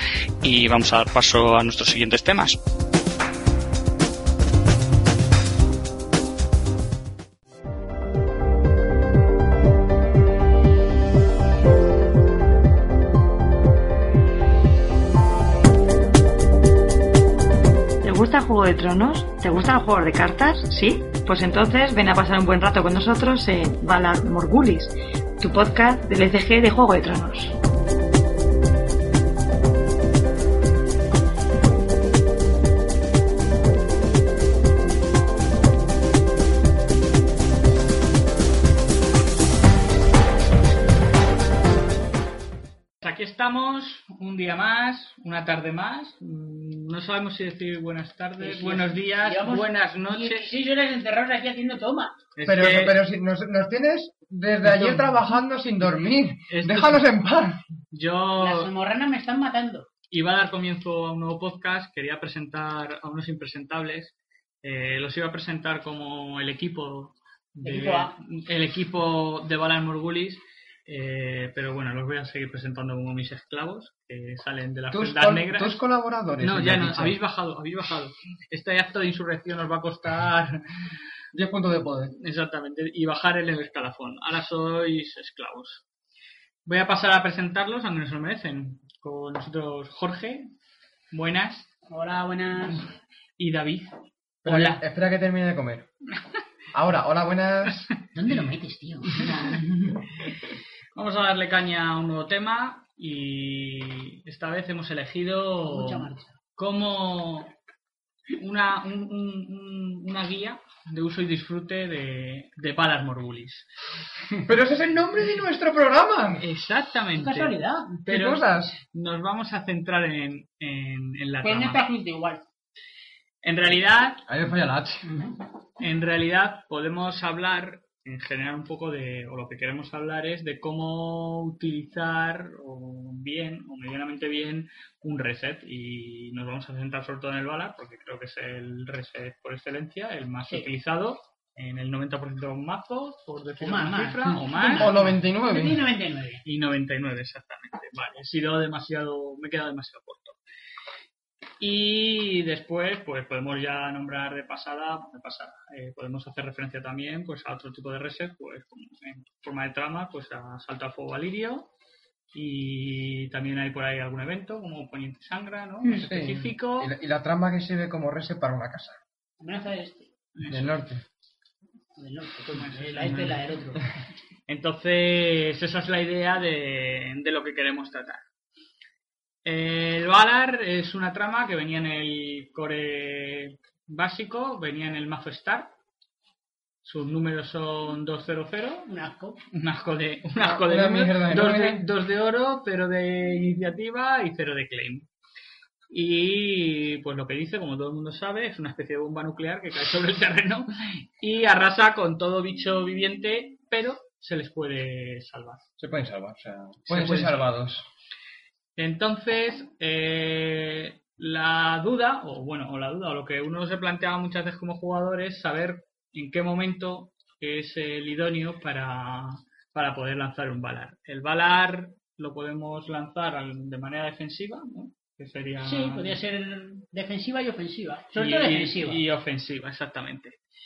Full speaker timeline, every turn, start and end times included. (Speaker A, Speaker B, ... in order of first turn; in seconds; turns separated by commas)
Speaker A: 0.4-2.6, Speaker B: 18.0-27.5, Speaker C: 43.0-50.5, Speaker D: 48.4-52.2, Speaker C: 52.3-53.0, Speaker E: 52.5-57.6, Speaker C: 54.6-55.2, Speaker C: 56.5-57.0, Speaker C: 57.9-58.7, Speaker D: 58.4-59.9, Speaker C: 60.1-75.8, Speaker D: 67.6-68.2, Speaker E: 74.9-77.2, Speaker C: 76.4-80.6, Speaker E: 81.3-82.1, Speaker C: 82.2-85.8, Speaker C: 86.6-90.5, Speaker C: 91.1-91.7, Speaker D: 91.9-92.9, Speaker C: 93.4-93.9, Speaker C: 94.4-94.8, Speaker E: 94.4-95.9, Speaker E: 96.7-97.9, Speaker D: 98.1-100.0, Speaker C: 99.1-99.6, Speaker C: 100.2-107.5, Speaker D: 105.6-106.3, Speaker C: 108.3-113.7, Speaker E: 114.5-116.4, Speaker C: 116.4-121.8, Speaker D: 117.1-118.0, Speaker E: 118.1-118.8, Speaker D: 121.4-122.4, Speaker C: 123.4-124.2, Speaker E: 124.2-125.1, Speaker D: 125.0-125.3, Speaker C: 125.8-145.1, Speaker D: 143.6-146.4, Speaker E: 144.6-145.8, Speaker C: 146.4-150.4, Speaker C: 151.6-161.7, Speaker C: 162.3-166.9, Speaker E: 166.0-169.0, Speaker D: 169.4-170.1, Speaker C: 170.3-170.8, Speaker E: 170.5-171.0, Speaker D: 171.9-173.8, Speaker C: 172.5-173.4, Speaker C: 174.5-178.2, Speaker C: 179.4-185.7, Speaker C: 186.8-188.9, Speaker D: 188.8-189.4, Speaker C: 189.5-195.1, Speaker E: 190.4-191.8, Speaker C: 195.9-205.7, Speaker E: 205.8-207.8, Speaker C: 206.9-207.5, Speaker C: 208.8-226.2, Speaker D: 225.6-229.0, Speaker C: 228.1-230.4